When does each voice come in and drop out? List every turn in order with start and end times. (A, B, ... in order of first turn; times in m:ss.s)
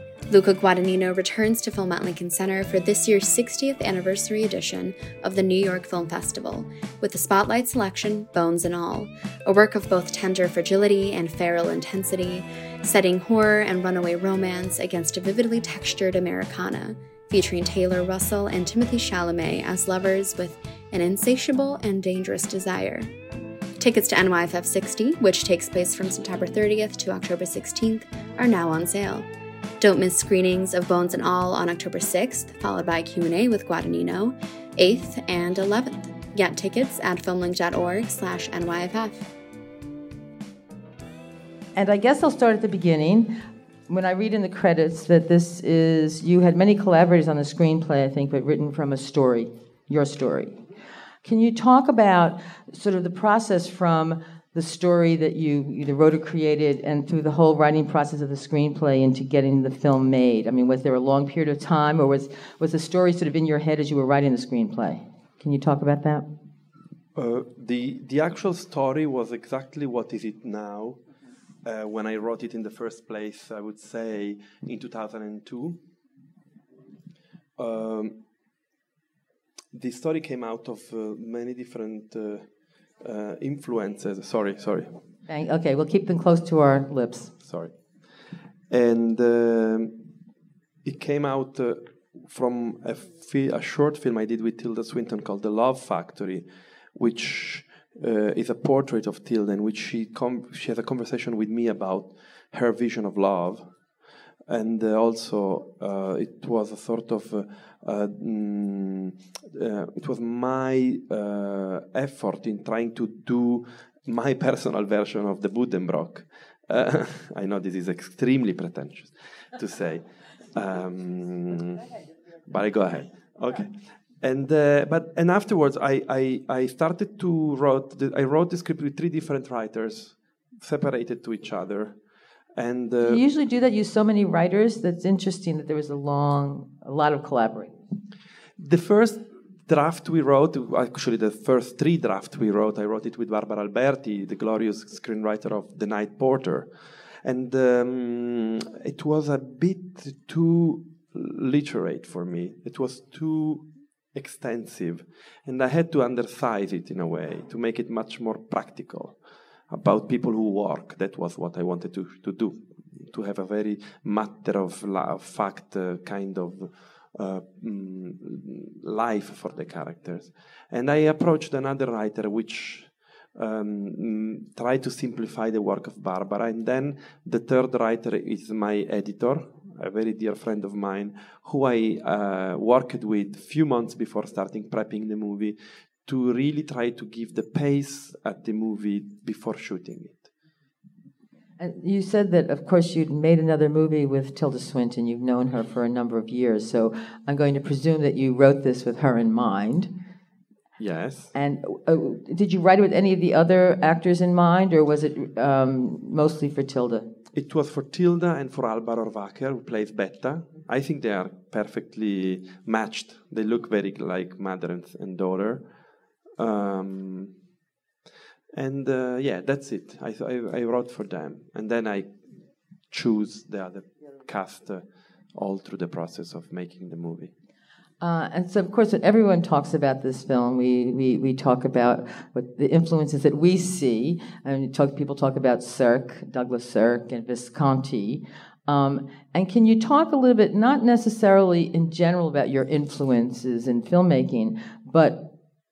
0:00.3-0:23.1 A
0:23.8-0:29.3 A
0:29.8-0:39.3 A
0:41.8-0:43.4 B
0:43.9-0:50.6 B
0:51.2-1:06.3 B
1:07.2-1:11.0 C
1:11.6-1:15.8 C
1:17.6-1:18.2 C
1:19.7-1:22.4 C
1:23.0-1:25.0 C
1:25.3-1:27.3 B
1:27.4-1:27.7 C
1:28.7-1:30.0 C
1:30.8-1:43.7 C
1:44.5-2:01.9 C
2:02.4-2:12.0 C
2:12.6-2:13.2 C
2:13.0-2:17.7 B
2:18.6-2:26.7 C
2:27.2-2:39.2 C
2:39.7-3:10.3 C
3:11.6-3:19.9 B
3:20.8-3:21.3 C
3:21.3-3:27.1 B
3:27.3-3:35.6 C
3:36.4-3:37.3 C
3:38.5-3:42.2 C
3:42.9-3:47.3 C
3:48.0-4:05.3 B